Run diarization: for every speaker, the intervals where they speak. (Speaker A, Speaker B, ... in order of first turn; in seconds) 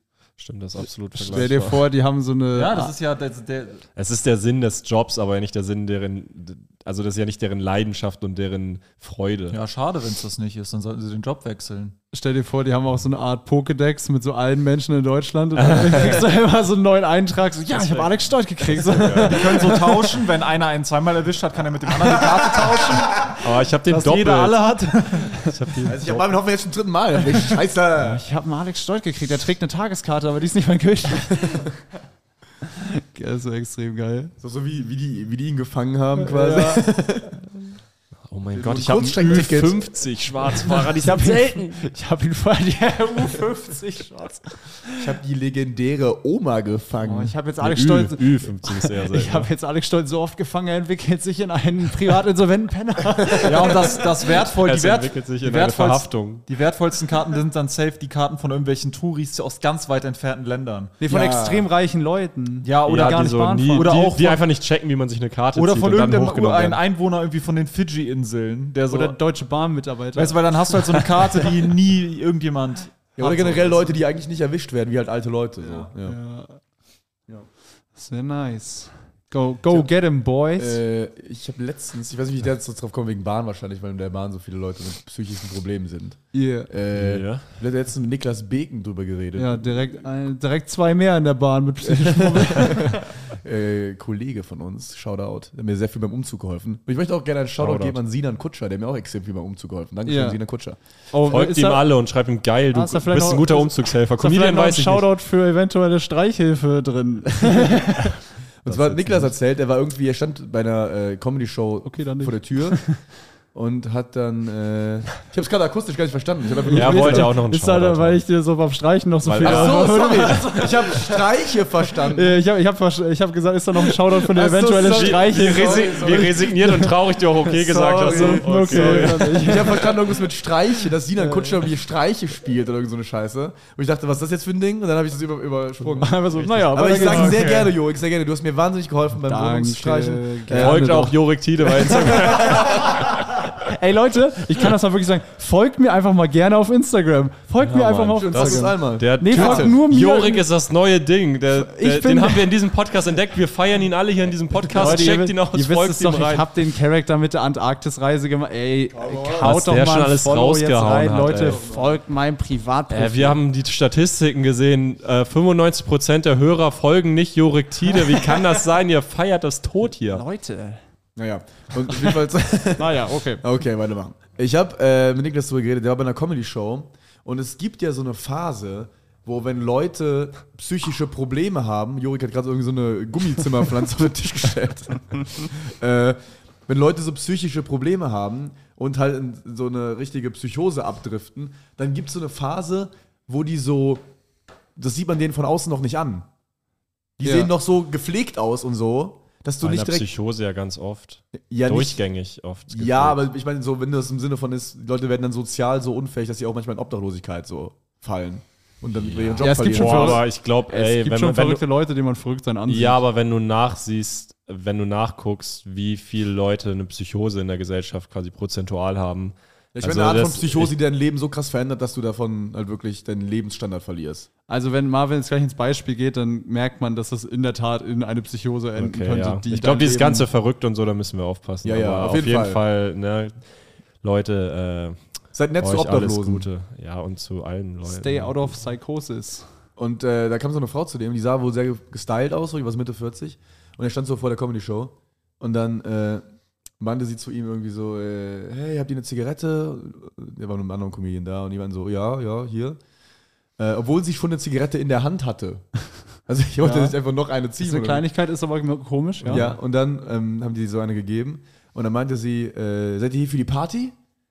Speaker A: 0.4-1.9, 4.0-9.6, 15.6-16.4, 17.8-18.1, 18.6-19.4, 23.3-26.2, 38.3-41.8, 47.6-49.5, 54.6-56.5, 62.9-66.8, 86.9-87.5, 97.6-98.0, 101.3-105.1, 108.7-109.3, 116.7-118.2, 119.2-120.8, 124.5-129.9, 136.4-137.4, 140.5-143.4, 147.6-156.5, 159.4-161.6, 162.9-170.2, 199.6-203.2, 208.9-211.6, 212.7-220.7, 228.8-233.4, 234.0-235.0, 235.6-238.6, 259.2-259.5
Speaker B: 1.2-2.9, 12.1-20.2, 25.5-25.9, 28.0-31.8, 32.6-34.3, 36.2-36.9, 40.5-45.1, 47.0-54.0, 61.0-64.1, 68.9-71.4, 76.0-76.6, 78.0-80.8, 86.3-86.7, 89.3-93.2, 100.1-100.4, 101.1-101.9, 102.7-108.2, 111.8-113.0, 116.6-121.3, 122.1-130.0, 131.2-131.7, 135.9-137.7, 139.3-150.4, 151.5-152.5, 154.7-163.4, 170.1-170.8, 172.8-173.4, 197.2-197.5, 209.4-213.0, 224.5-230.3, 237.8-239.4, 256.6-256.9, 257.6-259.5
Speaker C: 2.5-3.8, 9.5-11.9, 18.9-25.4, 53.4-61.0, 62.6-64.4, 65.5-69.2, 70.1-74.0, 75.6-75.9
Speaker D: 25.9-28.2, 34.4-37.4, 38.5-39.9, 45.0-47.4, 61.1-61.7, 73.2-76.2, 80.5-90.0, 91.8-100.8, 107.5-107.8, 108.6-112.8, 113.5-117.3, 119.4-122.4, 124.3-126.5, 127.7-141.1, 141.9-142.9, 148.1-149.8, 158.9-159.6, 161.3-162.0, 171.2-194.0, 194.8-196.3, 197.2-200.1, 201.4-202.0, 202.7-210.2, 219.7-224.3, 231.6-232.6, 235.3-236.5, 239.8-246.2, 246.8-252.8, 253.6-255.7, 256.3-258.1, 259.2-263.9